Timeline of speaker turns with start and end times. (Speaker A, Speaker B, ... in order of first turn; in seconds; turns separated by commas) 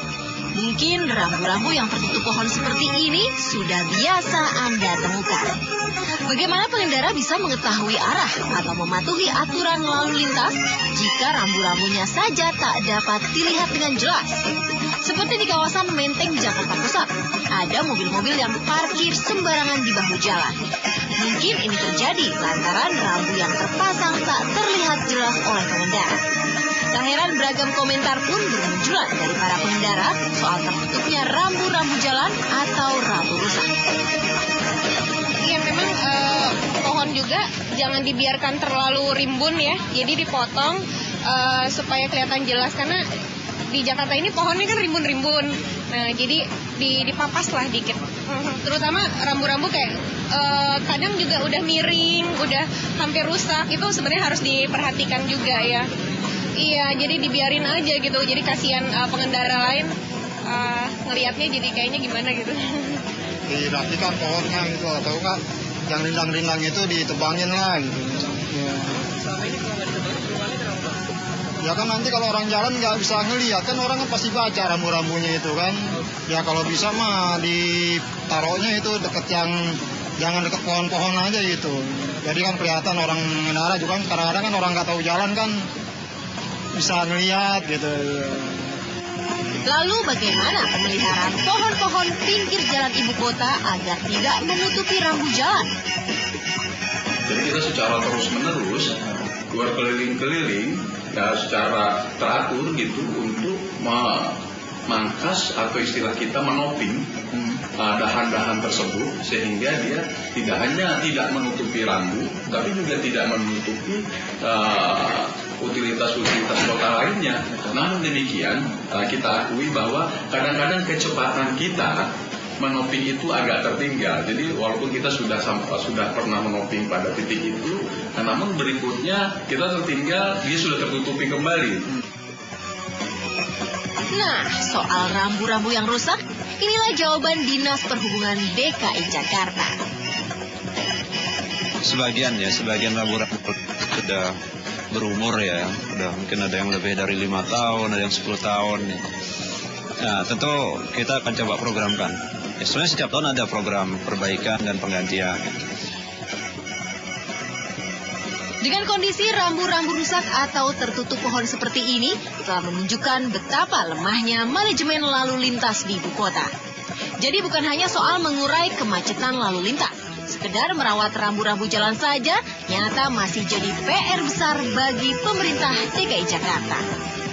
Speaker A: 0.6-5.5, Speaker A: 6.3-14.4, Speaker A: 15.0-26.2, Speaker A: 26.9-33.7, Speaker B: 35.5-43.0, Speaker B: 43.7-55.9, Speaker B: 56.6-59.9, Speaker B: 60.5-63.0, Speaker C: 63.5-69.0, Speaker C: 71.6-85.6, Speaker C: 86.8-88.6, Speaker A: 89.7-95.7, Speaker D: 97.3-99.0, Speaker D: 99.5-104.4, Speaker D: 104.9-122.1, Speaker D: 122.6-131.9, Speaker A: 134.1-139.7, Speaker E: 141.8-144.3, Speaker E: 144.9-149.0, Speaker E: 150.0-155.6, Speaker A: 158.6-166.5, Speaker A: 167.2-176.8